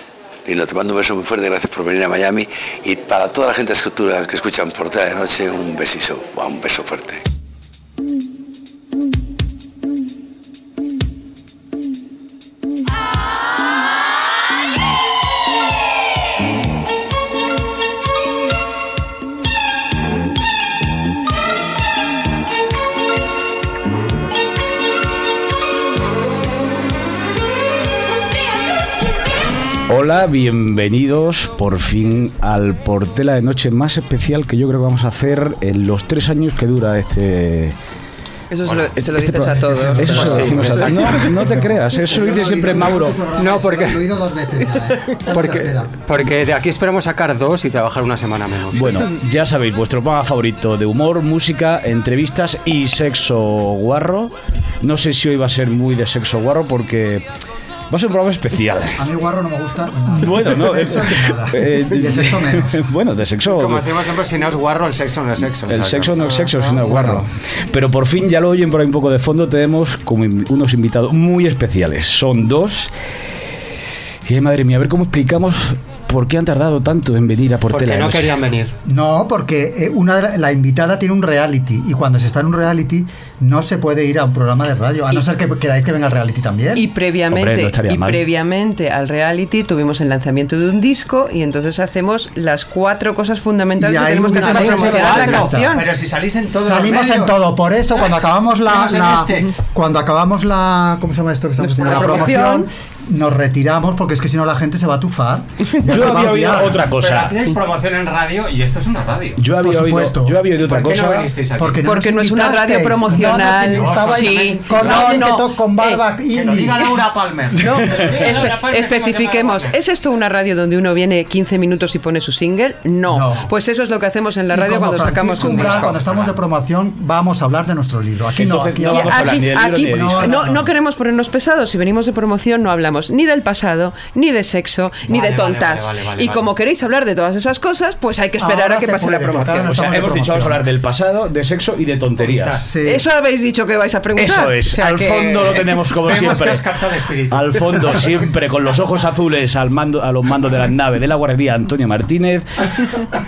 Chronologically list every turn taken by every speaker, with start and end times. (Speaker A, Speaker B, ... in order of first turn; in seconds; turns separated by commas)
Speaker A: 0.5-7.2, Speaker B: 29.9-37.8, Speaker C: 38.5-40.8, Speaker D: 38.6-38.9, Speaker B: 39.0-43.2, Speaker E: 39.4-45.9, Speaker D: 40.1-41.2, Speaker D: 43.4-44.0, Speaker D: 45.3-49.1, Speaker B: 48.7-57.2, Speaker B: 57.9-59.0, Speaker E: 58.9-62.8, Speaker B: 60.2-63.9, Speaker D: 63.5-66.2, Speaker B: 65.7-72.9, Speaker E: 66.8-67.3, Speaker B: 74.2-78.3, Speaker D: 77.7-78.7, Speaker E: 78.8-86.9, Speaker C: 86.7-95.9, Speaker B: 87.3-88.2, Speaker E: 93.8-95.9, Speaker D: 94.3-97.4, Speaker E: 96.6-106.8, Speaker D: 98.7-99.5, Speaker C: 101.6-102.7, Speaker D: 101.8-102.4, Speaker B: 105.8-107.3, Speaker D: 106.6-109.4, Speaker B: 109.4-111.3, Speaker E: 109.6-110.5, Speaker D: 110.5-111.8, Speaker E: 111.6-116.8, Speaker C: 111.8-116.0, Speaker D: 113.2-115.3, Speaker D: 116.3-119.8, Speaker C: 117.6-126.0, Speaker E: 123.0-123.5, Speaker E: 124.5-130.7, Speaker D: 125.4-126.3, Speaker B: 128.4-130.3, Speaker C: 128.9-139.8, Speaker D: 135.1-136.4, Speaker E: 138.4-140.6, Speaker B: 139.7-142.6, Speaker D: 142.2-142.7, Speaker E: 142.6-143.1, Speaker C: 142.8-145.6, Speaker B: 144.2-146.7, Speaker D: 146.0-148.1, Speaker B: 147.3-153.0